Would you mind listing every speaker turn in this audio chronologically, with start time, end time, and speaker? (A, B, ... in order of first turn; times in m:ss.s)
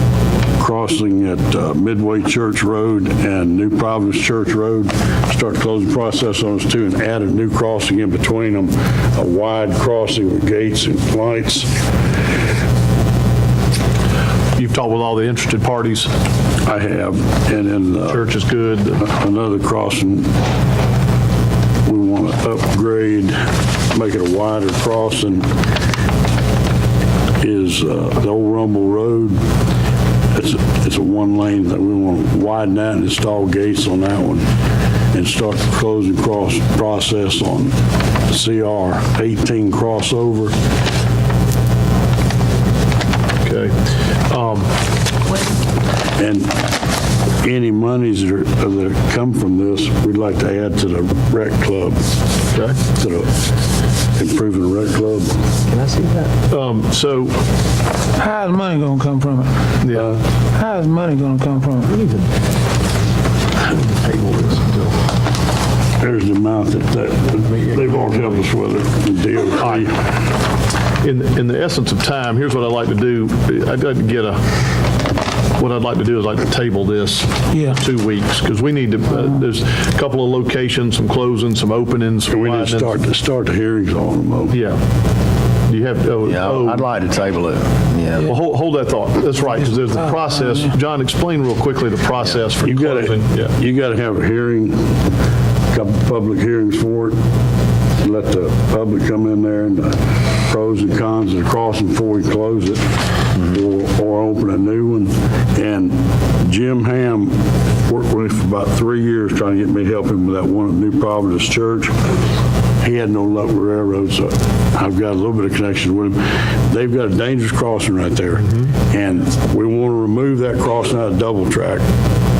0:00.6-0:11.8 A
0:14.6-0:16.1 B
0:16.6-0:18.3 A
0:18.0-0:19.0 B
0:19.0-0:20.3 A
0:21.8-0:25.4 A
0:27.4-0:29.4 A
0:30.3-0:34.4 A
0:35.1-0:37.7 A
0:38.3-0:40.5 A
0:43.4-0:44.7 B
0:46.2-0:46.7 A
0:47.4-0:52.0 A
0:52.5-0:52.8 B
0:53.0-0:53.4 A
0:54.2-0:55.5 A
0:56.5-0:57.4 B
0:58.2-0:59.8 C
0:59.8-1:00.1 B
1:00.4-1:02.1 C
1:03.8-1:04.9 B
1:06.0-1:10.0 A
1:09.6-1:09.9 B
1:11.0-1:14.4 B
1:15.6-1:23.0 B
1:17.5-1:17.8 C
1:22.3-1:24.6 A
1:24.5-1:24.8 B
1:25.7-1:26.9 B
1:26.2-1:28.3 D
1:28.2-1:33.5 B
1:30.0-1:30.7 C
1:32.6-1:35.0 A
1:35.7-1:37.2 A
1:38.0-1:47.4 A
1:47.9-1:51.9 A
1:52.8-2:01.8 A